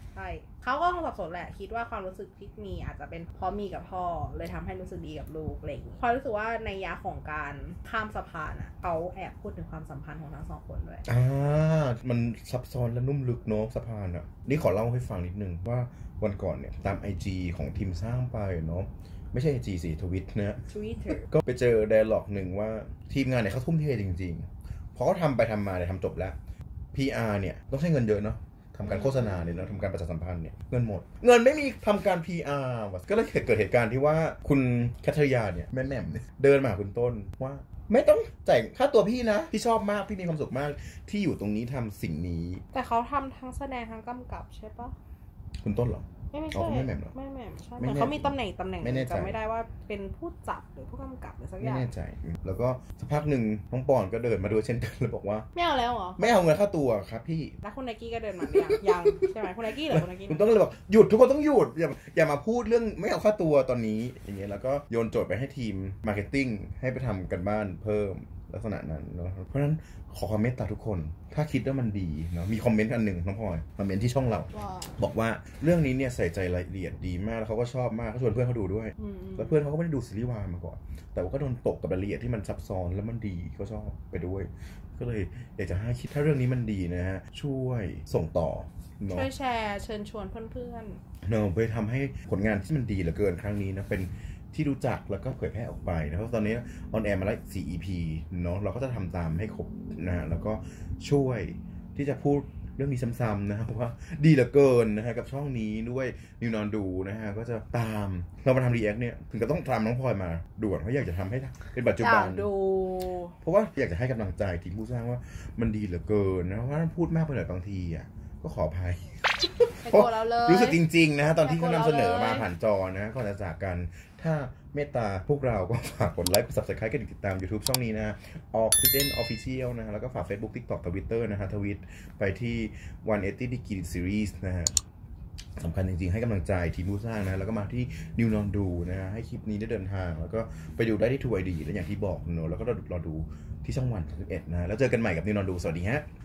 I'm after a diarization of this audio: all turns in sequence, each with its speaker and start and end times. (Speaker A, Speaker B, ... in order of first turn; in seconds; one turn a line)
Speaker A: 0.1-11.1
Speaker B: 11.1-26.4
Speaker A: 20.7-21.3
Speaker B: 26.9-42.6
Speaker A: 28.8-29.7
Speaker A: 42.7-44.9
Speaker B: 45.6-47.1
Speaker A: 46.3-51.9
Speaker B: 47.8-49.4
Speaker B: 51.6-55.5
Speaker A: 55.5-56.2
Speaker B: 56.2-57.5
Speaker A: 57.6-60.4
Speaker B: 58.4-89.3
Speaker A: 74.5-75.0
Speaker A: 79.0-79.6
Speaker A: 89.1-91.0
Speaker B: 91.2-112.5
Speaker A: 112.0-113.3
Speaker B: 113.4-134.7
Speaker A: 119.8-120.8
Speaker A: 121.4-122.5
Speaker B: 135.6-146.1